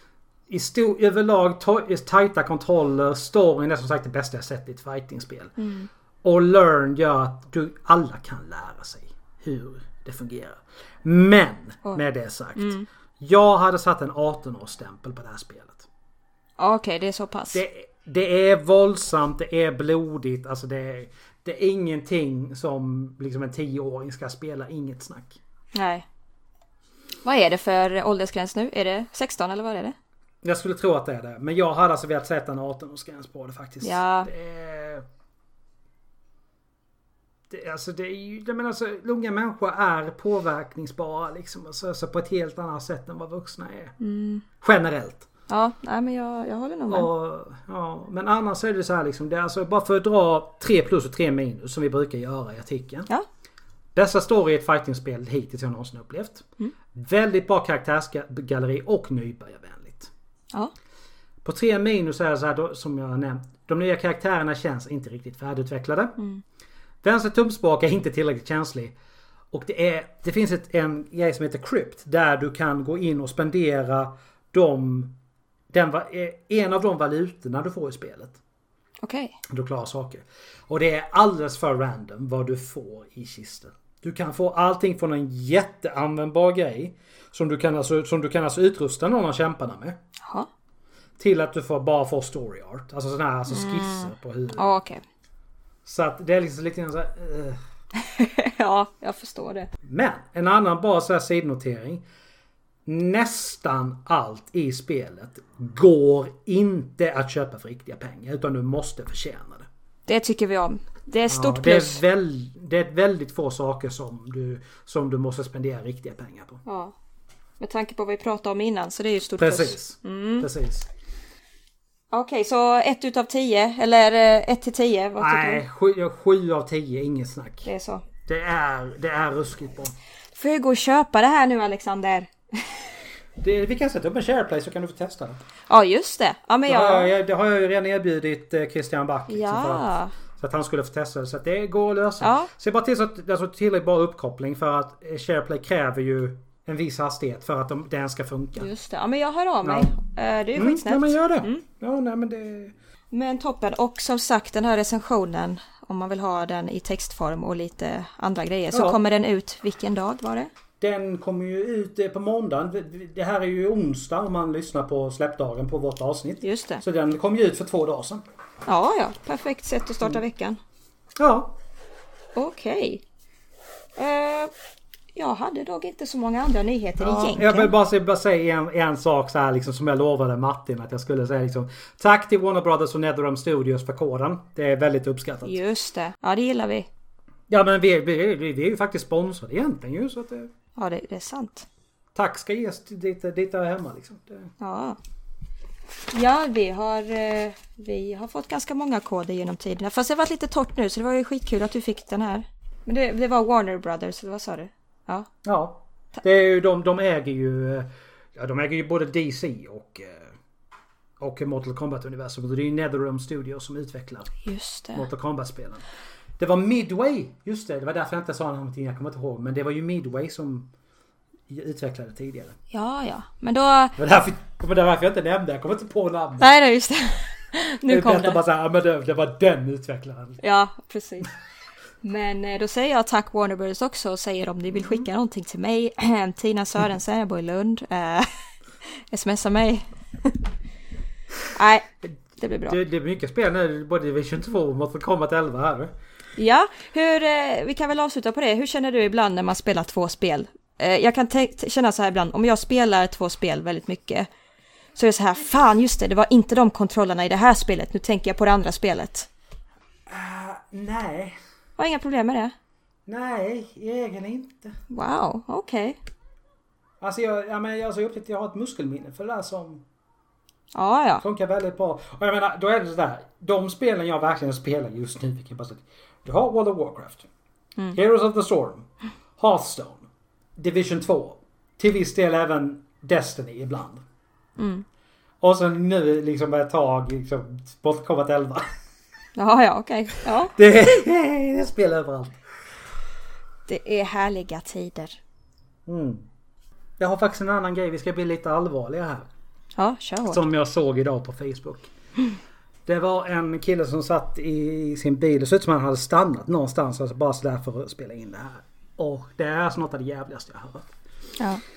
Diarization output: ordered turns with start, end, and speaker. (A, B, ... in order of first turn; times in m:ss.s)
0:00.5-0:05.6 A
0:05.6-0:05.9 B
0:06.2-0:15.9 A
0:12.6-0:12.9 B
0:16.6-0:17.6 B
0:17.5-0:25.4 A
0:25.7-0:26.0 B
0:27.2-0:30.0 B
0:30.4-0:35.0 A
0:33.8-0:34.3 B
0:37.5-0:43.9 A
0:44.0-0:44.4 B
0:44.6-0:45.3 A
0:45.5-0:47.1 B
0:46.9-0:53.1 A
0:53.9-1:00.1 A
1:01.4-1:06.2 A
1:07.0-1:08.9 A
1:09.5-1:15.1 A
1:15.7-1:18.4 A
1:19.0-1:19.4 B
1:19.5-1:30.0 A
1:31.2-1:34.7 A
1:33.5-1:35.0 B
1:35.8-1:37.6 A
1:38.0-1:39.7 B
1:39.8-1:42.0 A
1:42.9-1:49.7 A
1:50.1-1:52.0 B
1:51.3-1:56.6 A
1:56.6-1:56.9 B
1:57.6-2:00.5 B
1:59.4-2:00.9 A
2:02.1-2:05.6 B
2:05.2-2:07.7 A
2:07.6-2:08.0 B
2:08.2-2:09.9 A
2:10.3-2:12.8 B
2:13.4-2:15.4 A
2:15.7-2:17.1 B
2:16.6-2:28.7 A
2:19.3-2:20.1 B
2:22.2-2:22.5 B
2:28.6-2:31.6 B
2:29.6-2:29.9 A
2:30.6-2:32.7 A
2:33.1-2:40.5 B
2:38.7-2:39.0 A
2:40.8-2:48.2 A
2:46.4-2:46.8 B
2:48.6-2:50.6 B
2:51.2-2:51.6 A
2:52.3-2:53.0 B
2:54.0-2:54.5 B
2:55.1-2:57.7 B
2:57.0-3:05.6 A
3:05.4-3:06.9 B
3:07.5-3:10.5 A
3:10.8-3:11.7 B
3:12.1-3:14.5 A
3:14.6-3:15.0 B
3:16.1-3:25.3 B
3:25.4-3:30.3 A
3:31.2-3:34.4 A
3:34.4-3:35.0 B
3:34.9-3:35.8 A
3:36.4-3:40.7 A
3:41.5-3:42.6 A
3:42.7-3:44.0 B
3:44.0-3:46.5 A
3:46.4-3:48.4 B
3:47.9-3:50.4 A
3:50.4-3:51.3 B
3:52.0-3:58.3 B
3:59.0-4:00.4 B
4:01.5-4:02.8 B
4:02.7-4:05.9 A
4:06.4-4:14.3 B
4:15.0-4:19.3 B
4:20.1-4:21.4 A
4:21.8-4:22.5 B
4:23.1-4:24.7 A
4:24.9-4:26.0 B
4:27.0-4:29.8 A
4:30.7-4:31.2 B
4:31.2-4:37.3 A
4:37.9-4:38.9 A
4:39.4-4:40.0 A
4:40.6-4:44.0 A
4:44.6-4:44.8 B
4:45.4-4:48.6 A
4:49.4-4:50.5 B
4:50.6-4:52.4 A
4:53.7-4:55.2 B
4:55.9-4:56.2 A
4:57.0-4:59.3 A
4:59.8-5:00.4 B
5:00.3-5:01.9 A
5:02.9-5:10.9 A